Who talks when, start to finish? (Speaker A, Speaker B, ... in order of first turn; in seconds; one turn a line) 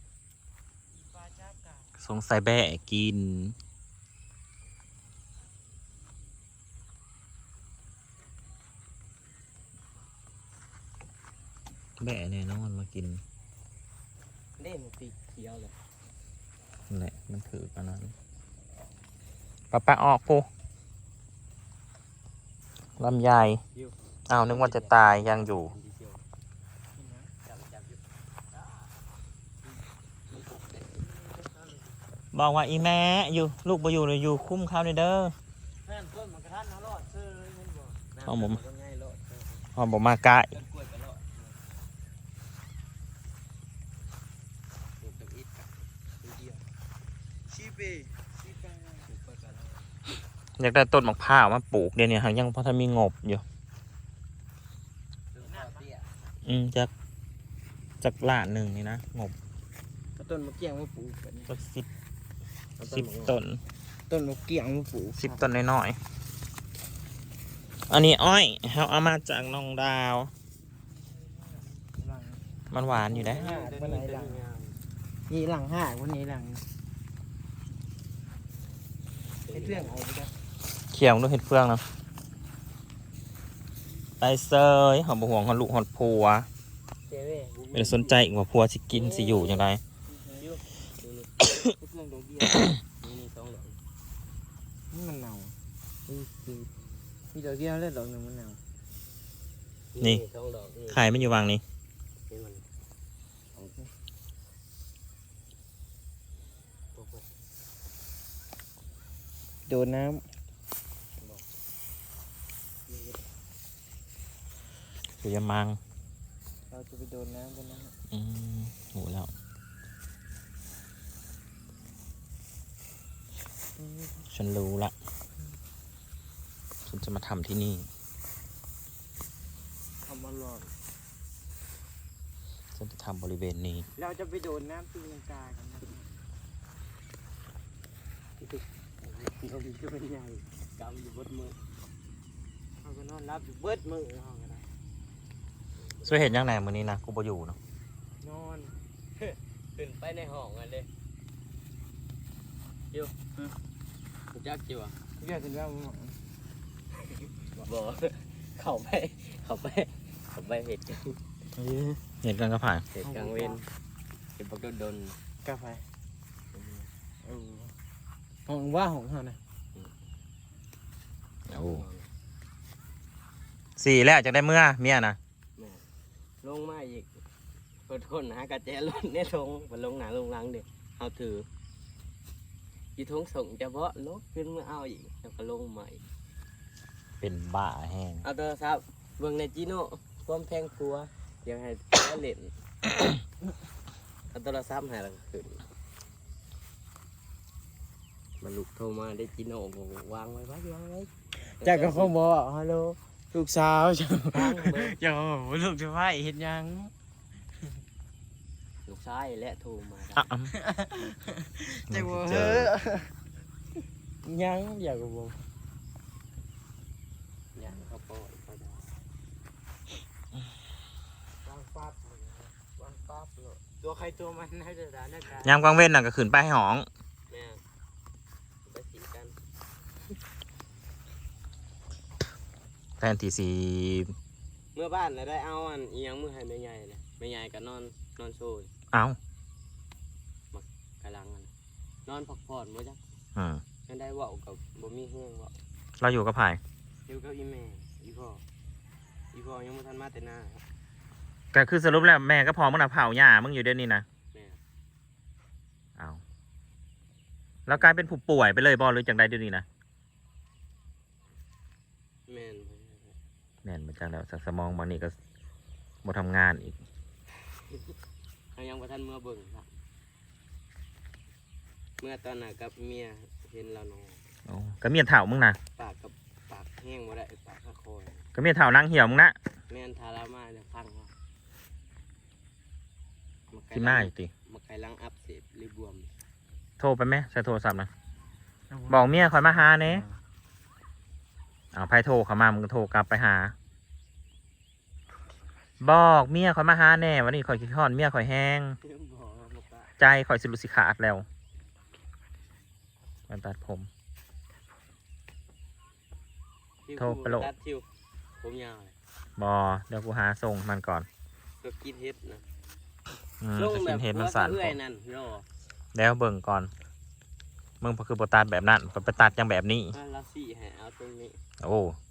Speaker A: 1.0-1.9
Speaker B: 2.0-3.5
Speaker B: 12.0-13.2
Speaker C: 14.6-15.7
Speaker B: 16.9-18.1
Speaker B: 19.7-20.4
Speaker B: 23.0-23.6
Speaker C: 23.6-26.2
Speaker B: 24.3-25.7
Speaker A: 26.9-27.3
Speaker C: 27.4-28.9
Speaker C: 30.3-32.0
Speaker B: 32.3-35.3
Speaker A: 35.8-38.0
Speaker C: 38.1-39.7
Speaker B: 38.2-38.6
Speaker B: 39.8-40.5
Speaker C: 40.5-41.6
Speaker C: 45.0-46.6
Speaker A: 47.5-49.0
Speaker C: 49.0-49.9
Speaker B: 50.6-53.4
Speaker C: 55.3-56.1
Speaker A: 55.5-55.7
Speaker B: 56.4-56.9
Speaker B: 58.0-59.3
Speaker A: 60.2-61.5
Speaker B: 61.5-61.9
Speaker C: 62.8-63.4
Speaker B: 62.8-63.6
Speaker A: 64.1-65.4
Speaker B: 65.2-66.0
Speaker B: 67.9-70.3
Speaker A: 71.1-72.5
Speaker B: 72.7-73.5
Speaker A: 73.1-74.4
Speaker C: 73.1-74.8
Speaker A: 75.3-76.7
Speaker C: 79.4-80.0
Speaker A: 79.5-80.3
Speaker B: 80.9-81.8
Speaker B: 84.2-86.5
Speaker C: 87.1-88.2
Speaker B: 87.7-89.8
Speaker C: 88.9-91.5
Speaker A: 91.8-92.7
Speaker C: 92.8-93.8
Speaker A: 94.9-95.5
Speaker A: 96.1-96.6
Speaker C: 96.6-96.9
Speaker A: 97.3-98.6
Speaker C: 99.9-101.4
Speaker B: 100.9-101.6
Speaker C: 102.3-102.6
Speaker C: 106.9-107.3
Speaker A: 109.7-110.2
Speaker C: 111.2-111.4
Speaker B: 115.2-115.8
Speaker A: 116.7-117.9
Speaker B: 118.1-119.3
Speaker A: 123.8-124.2
Speaker B: 124.3-124.9
Speaker B: 126.8-127.9
Speaker A: 130.0-130.7
Speaker B: 132.7-133.9
Speaker A: 133.9-136.1
Speaker C: 138.4-141.6
Speaker A: 142.8-144.7
Speaker C: 145.8-146.7
Speaker B: 146.0-147.6
Speaker A: 148.2-148.8
Speaker C: 149.2-150.9
Speaker C: 152.9-153.2
Speaker C: 154.3-155.0
Speaker A: 155.2-156.2
Speaker C: 157.1-161.2
Speaker A: 161.6-162.0
Speaker B: 162.2-162.8
Speaker C: 162.9-163.7
Speaker A: 163.0-163.6
Speaker C: 164.4-165.2
Speaker A: 165.4-165.8
Speaker C: 166.5-166.9
Speaker A: 167.2-167.7
Speaker A: 168.4-169.4
Speaker B: 171.5-171.8
Speaker C: 171.5-172.1
Speaker B: 173.8-175.2
Speaker C: 175.6-175.8
Speaker C: 176.4-177.1
Speaker C: 177.9-181.5
Speaker C: 182.9-186.0
Speaker B: 187.2-188.2
Speaker C: 188.2-192.5
Speaker C: 194.3-195.6
Speaker C: 198.4-201.1
Speaker A: 201.6-206.9
Speaker C: 201.6-202.1
Speaker C: 204.3-205.0
Speaker C: 208.8-210.2
Speaker B: 210.1-210.5
Speaker A: 210.5-213.1
Speaker B: 211.9-212.7
Speaker A: 214.2-215.5
Speaker C: 217.6-218.9
Speaker A: 221.5-222.5
Speaker C: 222.7-223.9
Speaker A: 223.9-225.6
Speaker B: 225.4-226.9
Speaker C: 227.3-227.6
Speaker C: 228.6-229.3
Speaker B: 233.0-234.1
Speaker C: 234.7-238.7
Speaker B: 238.9-239.2
Speaker C: 240.5-241.5
Speaker C: 242.1-243.0
Speaker B: 243.3-243.6
Speaker C: 243.9-245.6
Speaker B: 246.0-246.6
Speaker C: 247.1-248.4
Speaker C: 249.3-250.7
Speaker B: 251.5-254.0
Speaker C: 254.3-254.6
Speaker B: 256.0-256.2
Speaker B: 257.7-259.6
Speaker C: 262.3-263.1
Speaker B: 263.6-265.1
Speaker B: 266.0-266.8
Speaker C: 267.5-267.9
Speaker C: 268.5-269.7
Speaker C: 272.0-274.2
Speaker B: 274.4-275.6
Speaker C: 275.8-278.2
Speaker B: 278.3-279.3
Speaker C: 279.7-281.1
Speaker C: 283.5-286.1
Speaker B: 283.7-284.3
Speaker B: 286.8-287.9
Speaker A: 288.7-290.2
Speaker B: 288.9-290.1
Speaker B: 291.7-293.5
Speaker B: 295.8-298.8
Speaker C: 298.8-299.9
Speaker B: 300.0-301.2
Speaker B: 303.3-303.9
Speaker C: 306.9-307.9
Speaker B: 307.0-307.5
Speaker C: 308.4-308.9
Speaker B: 309.4-311.1
Speaker C: 311.6-312.4
Speaker B: 313.4-314.8
Speaker C: 313.5-315.4
Speaker B: 315.9-316.7
Speaker B: 317.8-319.9
Speaker C: 319.9-321.4
Speaker B: 321.6-322.0